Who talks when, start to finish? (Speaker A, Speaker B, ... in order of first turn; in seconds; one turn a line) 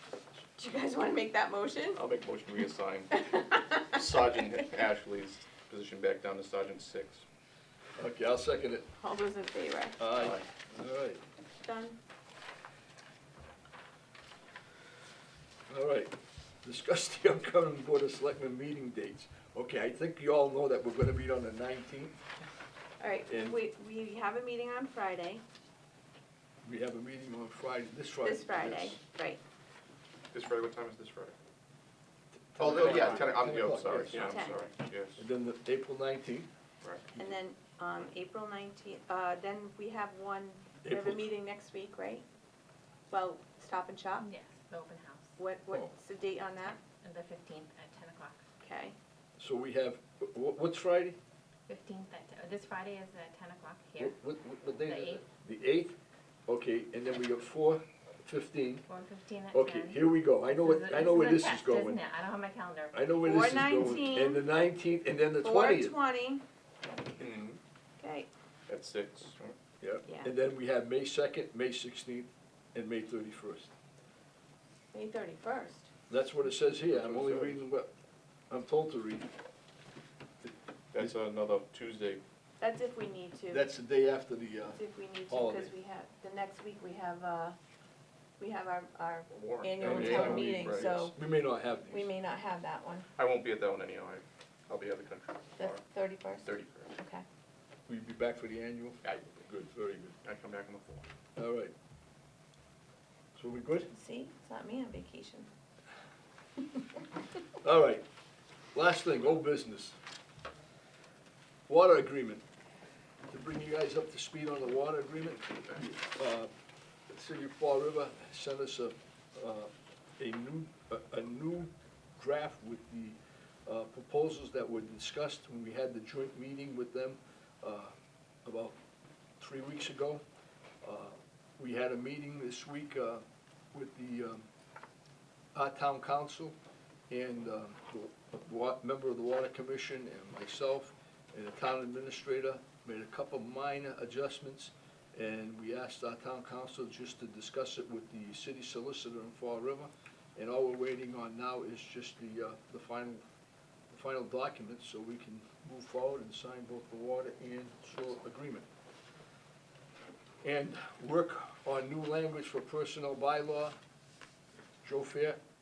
Speaker A: 0.6-2.0
Speaker B: 1.9-7.2
Speaker C: 8.0-8.8
Speaker A: 9.0-10.0
Speaker C: 10.0-11.2
Speaker B: 10.1-10.4
Speaker A: 11.6-12.0
Speaker C: 15.7-22.2
Speaker A: 23.0-25.4
Speaker C: 23.3-23.6
Speaker C: 26.6-29.0
Speaker A: 28.2-29.4
Speaker B: 30.3-31.4
Speaker C: 32.5-34.4
Speaker B: 32.6-35.2
Speaker A: 34.0-34.6
Speaker C: 35.2-36.5
Speaker B: 36.8-37.1
Speaker A: 37.1-42.2
Speaker C: 40.8-41.3
Speaker A: 43.1-44.3
Speaker D: 44.2-45.3
Speaker A: 45.4-46.8
Speaker D: 47.0-48.4
Speaker A: 48.6-49.0
Speaker C: 49.4-51.2
Speaker D: 51.7-54.2
Speaker C: 54.0-55.9
Speaker D: 54.7-55.2
Speaker C: 56.5-58.9
Speaker D: 58.9-63.0
Speaker C: 59.5-62.0
Speaker C: 62.9-66.0
Speaker A: 63.2-64.5
Speaker A: 65.4-66.4
Speaker B: 67.2-67.6
Speaker A: 68.0-68.3
Speaker B: 68.7-69.6
Speaker C: 69.8-73.7
Speaker A: 70.0-70.3
Speaker A: 74.9-75.9
Speaker C: 76.1-77.9
Speaker B: 76.9-77.6
Speaker C: 78.5-79.3
Speaker C: 80.4-81.1
Speaker B: 80.9-82.2
Speaker A: 82.6-83.6
Speaker C: 83.5-85.7
Speaker A: 84.8-87.6
Speaker A: 88.4-91.1
Speaker B: 89.3-91.0
Speaker C: 89.8-92.1
Speaker A: 91.9-93.1
Speaker B: 93.2-95.8
Speaker A: 95.6-97.2
Speaker B: 96.4-96.9
Speaker C: 97.9-100.2
Speaker B: 99.0-99.5
Speaker B: 100.2-101.0
Speaker C: 101.4-101.7
Speaker C: 103.3-103.9
Speaker A: 103.9-105.5
Speaker C: 107.6-108.0
Speaker C: 108.7-110.0
Speaker C: 111.7-112.4
Speaker C: 113.3-116.5
Speaker C: 117.1-127.9
Speaker C: 128.4-128.7
Speaker C: 129.4-130.2
Speaker C: 130.8-134.4
Speaker C: 135.5-136.6
Speaker C: 137.1-153.2
Speaker C: 153.9-158.7
Speaker C: 160.4-163.8
Speaker C: 164.8-165.4